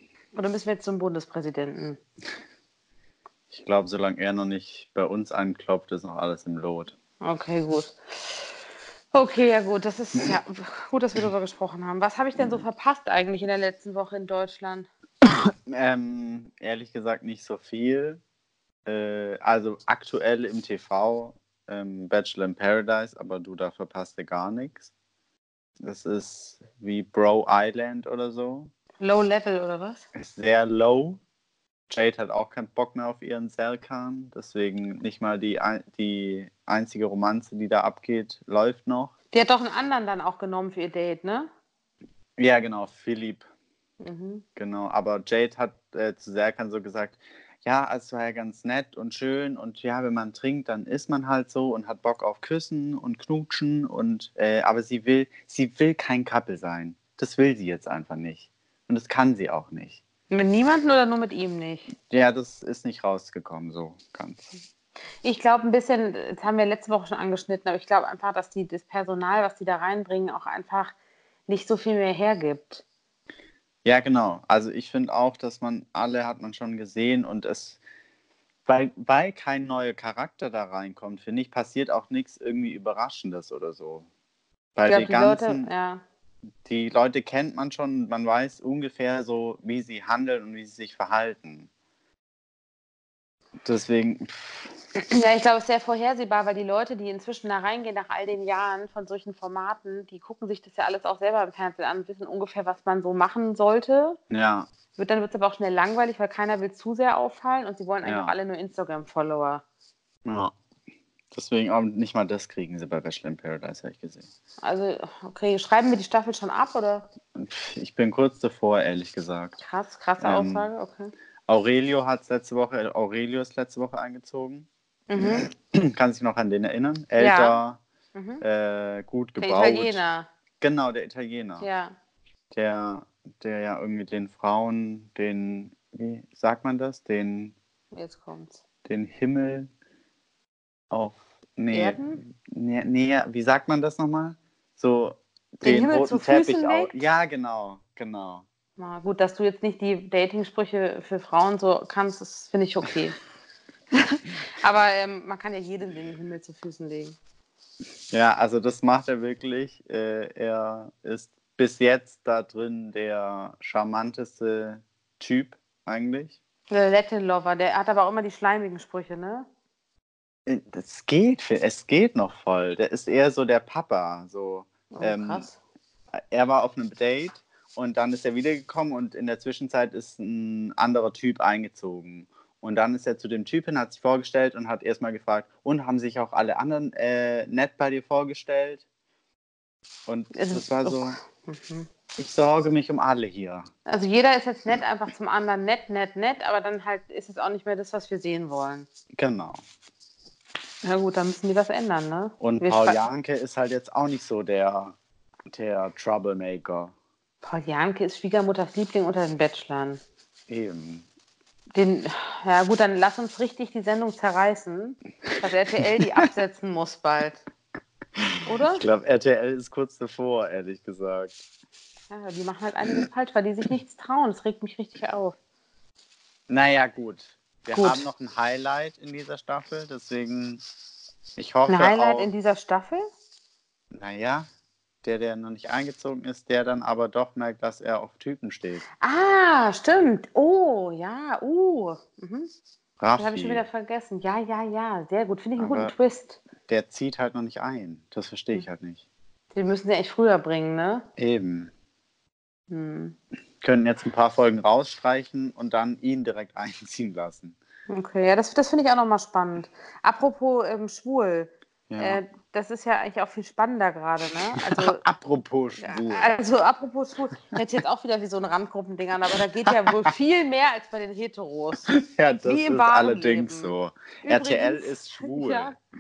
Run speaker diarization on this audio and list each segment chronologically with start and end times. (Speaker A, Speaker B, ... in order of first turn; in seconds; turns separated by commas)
Speaker A: 0.3-2.0, Speaker B: 3.5-6.9, Speaker A: 7.2-8.0, Speaker A: 9.1-14.9, Speaker B: 12.3-12.6, Speaker B: 15.2-18.2, Speaker B: 18.9-24.9, Speaker B: 25.8-28.7, Speaker A: 29.0-30.0, Speaker B: 30.1-31.2, Speaker B: 31.9-39.1, Speaker A: 39.3-41.5, Speaker B: 42.4-43.4, Speaker A: 44.0-44.4, Speaker B: 44.5-60.0, Speaker A: 60.3-61.9, Speaker B: 62.1-64.5, Speaker A: 65.2-70.9, Speaker A: 71.5-72.8, Speaker B: 73.8-77.8, Speaker B: 78.7-84.1, Speaker B: 84.7-85.7, Speaker A: 84.9-86.0, Speaker B: 86.6-91.7, Speaker B: 93.6-94.7, Speaker A: 94.9-104.2, Speaker B: 104.3-104.7, Speaker A: 105.0-109.6, Speaker B: 108.0-108.3, Speaker B: 110.2-110.5, Speaker B: 111.3-114.3, Speaker A: 114.6-117.1, Speaker B: 117.3-119.5, Speaker A: 119.6-121.1, Speaker B: 120.2-120.7, Speaker B: 121.5-127.8, Speaker A: 125.1-125.5, Speaker A: 127.2-127.6, Speaker A: 128.1-128.4, Speaker B: 128.4-130.0, Speaker A: 129.4-130.3, Speaker B: 130.6-131.7, Speaker A: 131.6-131.9, Speaker B: 132.5-137.5, Speaker A: 137.9-138.6, Speaker B: 138.8-139.7, Speaker B: 140.9-148.4, Speaker A: 141.7-142.2, Speaker A: 145.6-146.9, Speaker A: 148.8-153.2, Speaker A: 153.9-157.2, Speaker B: 158.1-166.4, Speaker A: 166.7-169.5, Speaker B: 170.4-175.5, Speaker A: 174.9-175.5, Speaker B: 176.2-188.8, Speaker B: 190.1-191.2, Speaker A: 190.3-191.9, Speaker B: 192.2-193.7, Speaker A: 193.8-198.9, Speaker B: 199.2-199.6, Speaker A: 200.8-203.0, Speaker B: 202.4-204.9, Speaker B: 205.5-206.9, Speaker A: 207.4-210.0, Speaker B: 210.5-211.0, Speaker A: 211.7-217.4, Speaker B: 215.8-216.2, Speaker B: 218.2-221.4, Speaker A: 218.4-218.8, Speaker A: 222.1-225.3, Speaker B: 226.5-230.6, Speaker A: 227.7-228.0, Speaker B: 231.3-232.3, Speaker A: 231.7-233.0, Speaker B: 233.9-234.5, Speaker B: 235.0-238.8, Speaker A: 239.0-242.5, Speaker B: 243.0-243.6, Speaker A: 243.2-246.4, Speaker B: 245.6-245.9, Speaker B: 246.6-249.0, Speaker A: 249.5-251.1, Speaker B: 251.2-251.7, Speaker A: 252.7-253.2, Speaker B: 253.6-257.6, Speaker A: 257.9-265.0, Speaker B: 261.9-262.2, Speaker B: 264.5-266.3, Speaker A: 265.8-271.9, Speaker B: 269.7-270.1, Speaker B: 271.9-275.8, Speaker A: 272.4-275.8